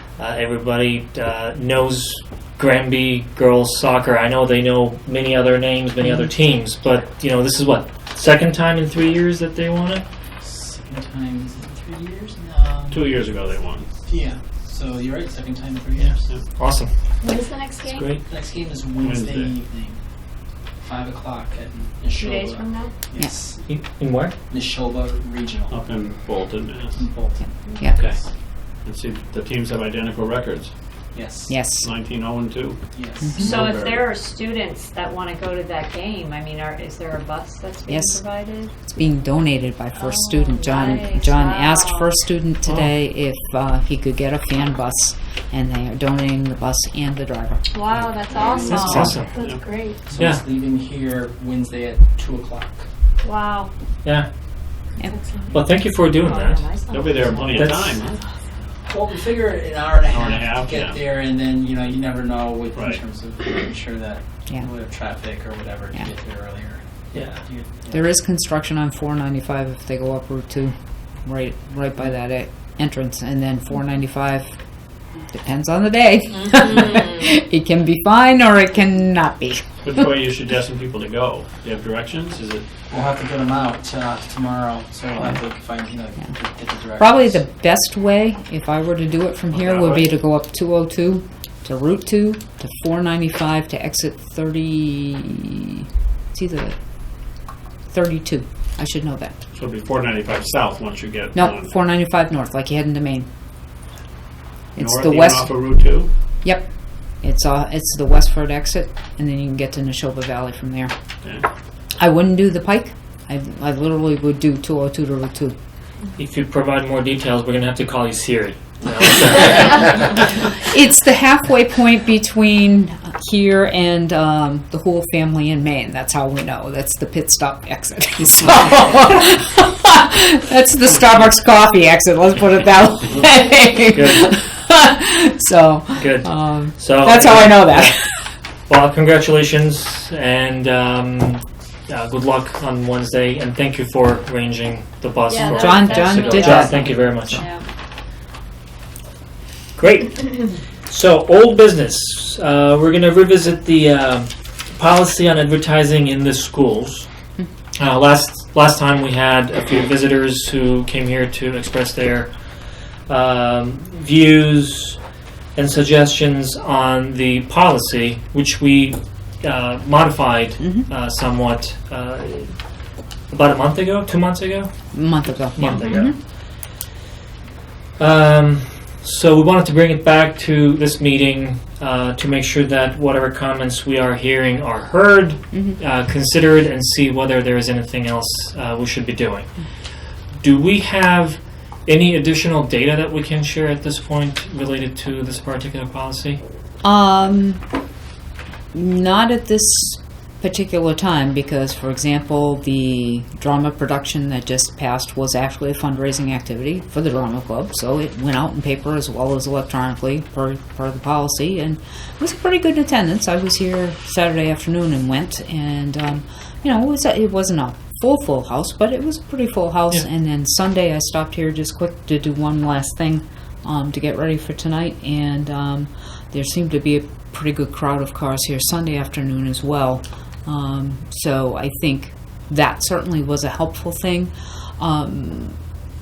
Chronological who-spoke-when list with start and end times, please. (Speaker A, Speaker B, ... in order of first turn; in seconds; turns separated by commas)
Speaker A: 0.2-10.0, Speaker B: 6.0-6.3, Speaker C: 10.4-13.2, Speaker D: 12.9-13.9, Speaker C: 14.1-16.3, Speaker A: 16.0-16.9, Speaker E: 17.2-18.0, Speaker D: 17.9-18.2, Speaker A: 17.9-18.2, Speaker C: 18.2-20.0, Speaker D: 19.0-19.5, Speaker C: 20.8-23.6, Speaker E: 22.1-22.9, Speaker A: 23.6-24.3, Speaker C: 24.5-25.8, Speaker D: 25.7-27.1, Speaker C: 26.9-28.3, Speaker B: 27.4-28.0, Speaker D: 27.9-28.2, Speaker D: 28.8-30.7, Speaker C: 31.1-31.7, Speaker B: 31.5-31.9, Speaker D: 31.7-34.1, Speaker C: 32.9-33.4, Speaker B: 33.2-33.5, Speaker E: 33.3-38.7, Speaker B: 37.9-38.2, Speaker B: 38.9-47.7, Speaker E: 40.0-42.1, Speaker E: 47.7-49.9, Speaker D: 47.9-49.6, Speaker C: 48.3-49.0, Speaker A: 48.7-49.4, Speaker B: 48.7-49.2, Speaker C: 50.0-52.8, Speaker A: 50.2-50.4, Speaker E: 53.2-53.7, Speaker E: 55.0-55.5, Speaker A: 55.5-56.6, Speaker E: 56.2-57.9, Speaker D: 56.9-58.2, Speaker A: 57.5-58.0, Speaker C: 58.9-68.0, Speaker D: 60.0-61.0, Speaker D: 62.7-63.0, Speaker A: 67.1-67.5, Speaker B: 67.9-74.6, Speaker B: 75.3-80.0, Speaker D: 79.8-82.7, Speaker C: 82.9-87.4, Speaker B: 87.0-96.8, Speaker D: 89.5-90.1, Speaker B: 97.9-99.3, Speaker D: 99.5-101.7, Speaker B: 101.3-103.3, Speaker B: 104.8-105.9, Speaker D: 104.8-106.1, Speaker B: 106.4-110.9, Speaker B: 112.0-115.6, Speaker A: 116.2-120.3, Speaker B: 120.5-138.1, Speaker A: 133.9-134.3, Speaker A: 136.0-138.0, Speaker A: 138.7-147.5, Speaker E: 145.3-147.6, Speaker B: 145.4-147.6, Speaker A: 149.8-157.1, Speaker A: 157.8-162.3, Speaker A: 163.1-165.0, Speaker A: 165.5-172.5, Speaker B: 170.6-170.9, Speaker A: 173.3-176.2, Speaker B: 174.9-176.2, Speaker A: 178.0-189.6, Speaker B: 185.5-185.8, Speaker A: 190.4-196.4, Speaker B: 196.8-197.6, Speaker B: 198.7-235.6